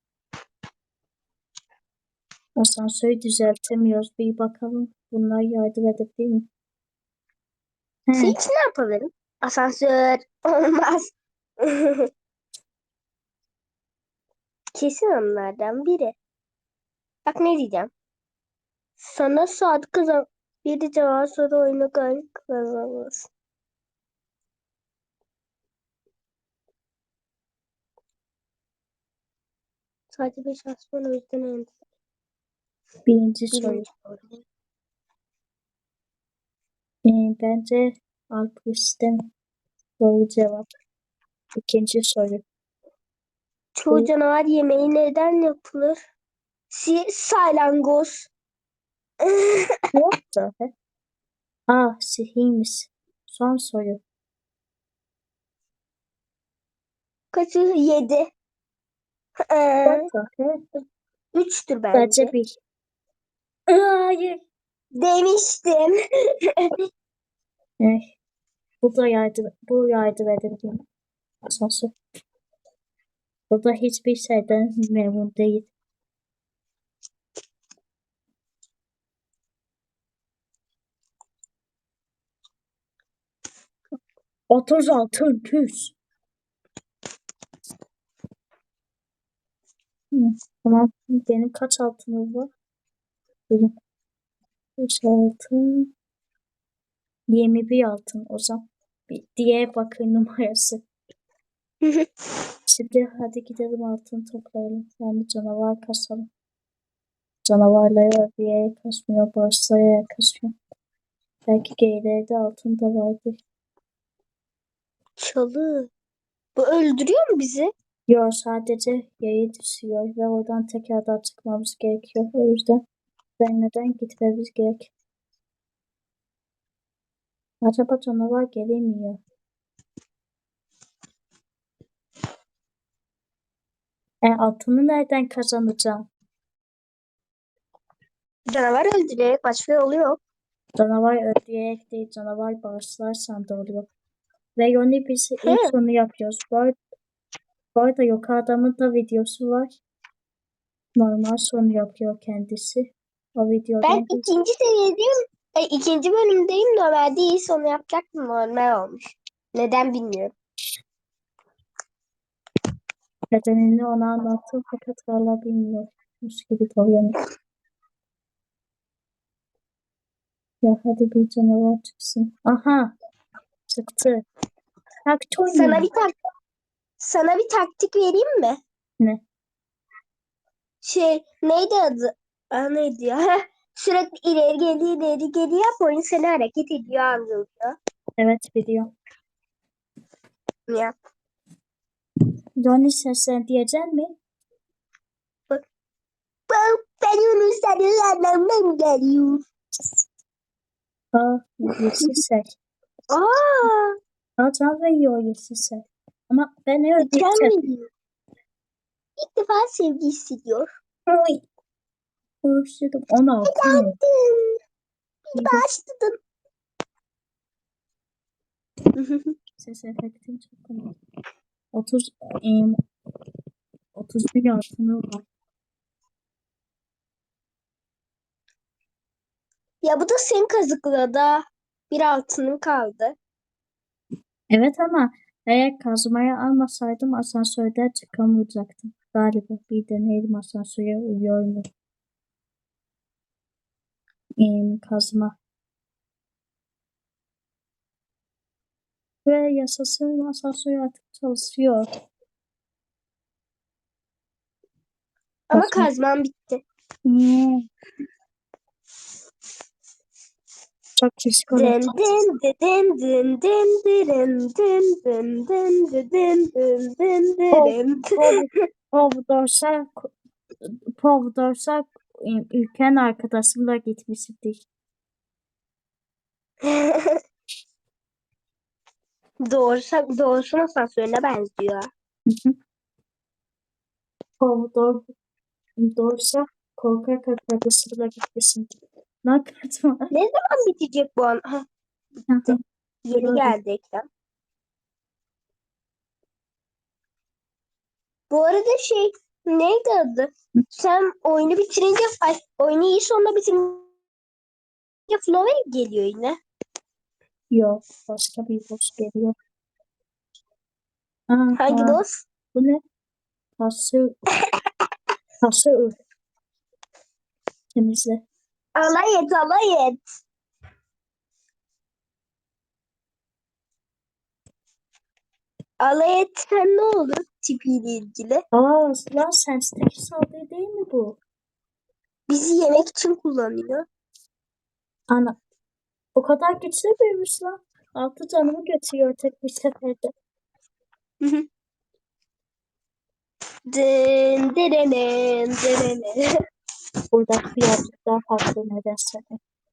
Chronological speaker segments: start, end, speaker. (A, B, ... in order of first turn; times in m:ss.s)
0:02.6-0:06.5 A
0:08.1-0:08.4 A
0:08.2-0:12.1 B
0:14.7-0:16.1 B
0:17.2-0:17.9 B
0:19.0-0:23.3 B
0:30.1-0:31.7 B
0:33.1-0:33.9 A
0:33.5-0:34.4 B
0:37.0-0:39.3 A
0:40.0-0:40.7 A
0:41.6-0:42.4 A
0:43.8-0:46.0 B
0:46.7-0:48.3 B
0:49.2-0:49.8 B
0:49.9-0:50.7 A
0:51.7-0:54.0 A
0:57.3-0:58.3 B
0:59.5-1:00.0 B
0:59.8-1:00.6 A
1:01.3-1:02.3 B
1:01.9-1:02.6 A
1:03.7-1:04.4 A
1:04.9-1:06.7 B
1:07.8-1:08.1 A
1:08.8-1:10.9 A
1:11.4-1:12.0 A
1:13.5-1:15.7 A
1:24.5-1:26.0 A
1:30.1-1:32.5 A
1:33.5-1:33.7 A
1:34.8-1:35.9 A
1:37.3-1:40.8 A
1:41.8-1:42.1 B
1:42.7-1:46.3 A
1:47.4-1:50.6 A
1:51.5-1:53.4 A
1:55.2-1:55.9 B
1:56.6-1:57.7 B
1:58.1-2:02.8 A
2:03.4-2:04.9 A
2:07.6-2:09.2 A
2:14.2-2:16.1 A
2:18.5-2:20.2 B
2:20.8-2:23.9 A
2:24.6-2:26.8 A
2:25.4-2:25.7 B
2:27.8-2:29.7 A
2:31.0-2:34.3 A
2:33.8-2:40.3 B
2:43.3-2:47.2 A
2:50.6-2:52.9 A
2:53.7-2:54.2 A
2:55.0-2:55.9 A
2:55.5-2:56.1 B
2:57.0-2:58.6 B
3:00.8-3:07.8 B
3:08.2-3:08.9 A
3:10.7-3:10.9 B
3:12.6-3:14.2 A
3:16.5-3:19.4 B
3:21.1-3:22.6 A
3:23.1-3:24.0 B
3:24.4-3:27.6 A
3:27.0-3:27.9 B
3:29.2-3:30.7 B
3:31.1-3:31.4 A
3:32.4-3:34.0 A
3:33.5-3:34.6 B
3:35.3-3:36.2 B
3:35.4-3:35.6 A
3:39.0-3:39.4 B
3:39.6-3:41.0 A
3:41.7-3:42.8 A
3:44.0-3:45.2 A
3:49.8-3:53.2 B
3:54.5-4:01.6 A
4:04.4-4:05.3 A
4:09.2-4:11.9 A
4:15.5-4:16.6 B
4:15.5-4:15.9 A
4:17.1-4:17.6 A
4:21.0-4:22.0 A
4:21.6-4:28.4 B
4:27.5-4:34.6 A
4:36.6-4:37.2 B
4:39.4-4:41.9 B
4:42.3-4:42.6 A
4:44.4-4:45.1 A
4:45.8-4:50.1 A
4:50.1-4:51.6 B
4:52.3-4:52.6 A
4:53.1-4:54.1 B
4:53.1-4:53.6 A
4:58.3-5:03.9 B
5:05.1-5:06.4 B
5:07.5-5:09.4 A
5:11.3-5:12.0 A
5:11.6-5:12.2 B
5:12.5-5:12.8 A
5:13.6-5:14.2 A
5:15.4-5:16.0 A
5:17.7-5:18.2 A
5:18.8-5:20.0 B
5:25.8-5:28.4 B
5:28.5-5:31.2 A
5:32.3-5:33.9 B
5:35.1-5:35.4 A
5:36.1-5:40.1 A
5:41.2-5:41.5 B
5:43.7-5:46.3 B
5:47.1-5:49.4 A